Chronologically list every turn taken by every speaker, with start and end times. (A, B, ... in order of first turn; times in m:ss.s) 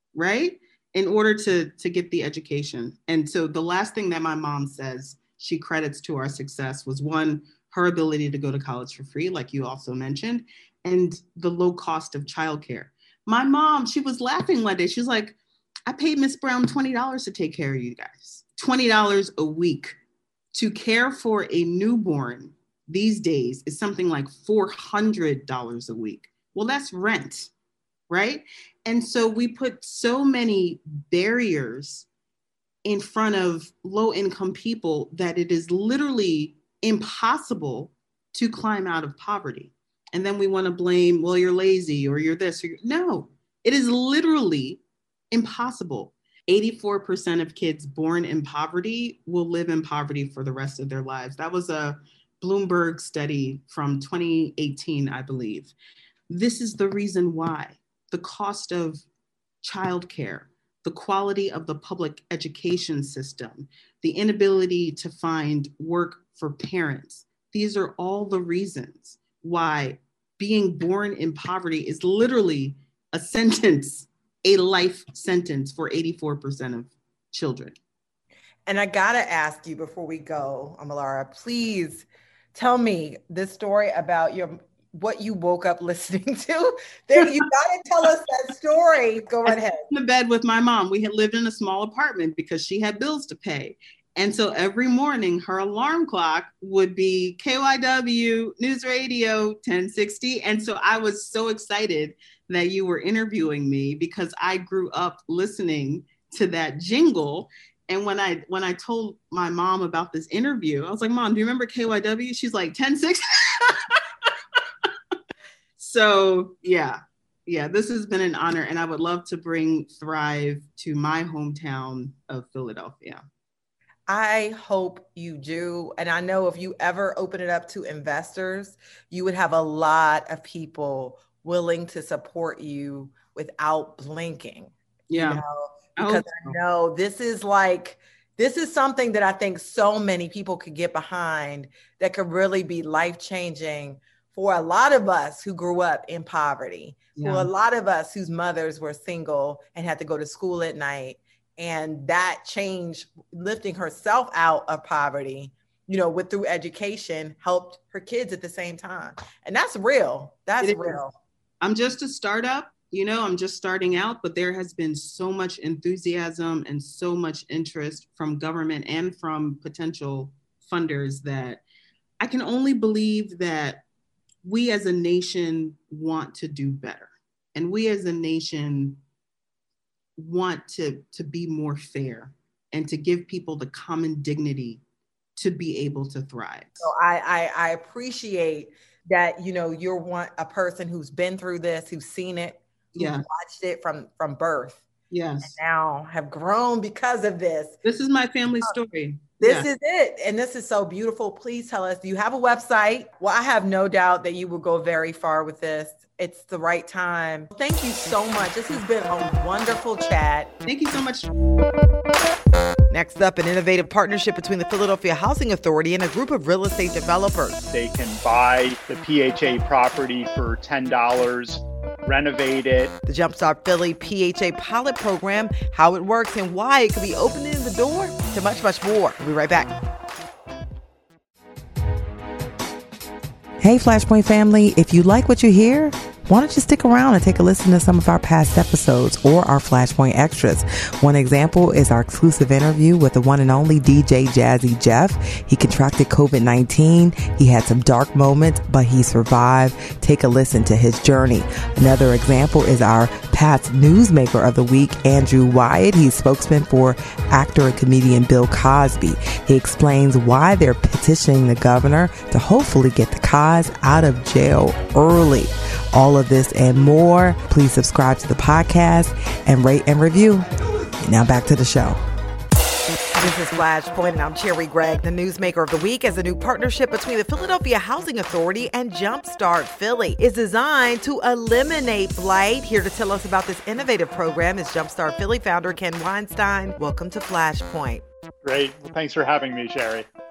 0:00.1-0:20.0 A
0:20.5-0:27.5 A
0:28.1-0:32.1 A
0:32.8-0:55.7 A
0:56.3-0:59.0 A
0:59.6-1:17.8 A
1:18.6-1:29.9 B
1:29.5-1:54.3 A
1:55.8-2:03.2 A
2:04.1-2:41.1 B
2:15.1-2:15.4 A
2:16.0-2:16.6 A
2:27.2-2:27.5 A
2:40.6-2:41.0 A
2:41.6-2:51.6 A
2:52.2-2:53.8 A
2:54.4-2:59.0 A
3:00.2-3:04.8 A
3:05.4-3:06.9 A
3:06.8-3:14.8 B
3:12.9-3:13.2 A
3:15.1-3:15.5 A
3:15.4-3:17.8 B
3:17.8-3:19.7 A
3:19.4-3:30.5 B
3:30.6-3:31.3 A
3:32.9-3:37.6 B
3:37.7-3:42.9 C
3:43.0-3:49.7 B
3:53.6-4:30.5 B
4:31.0-4:32.0 B
4:33.2-4:48.0 B
4:48.4-4:50.1 C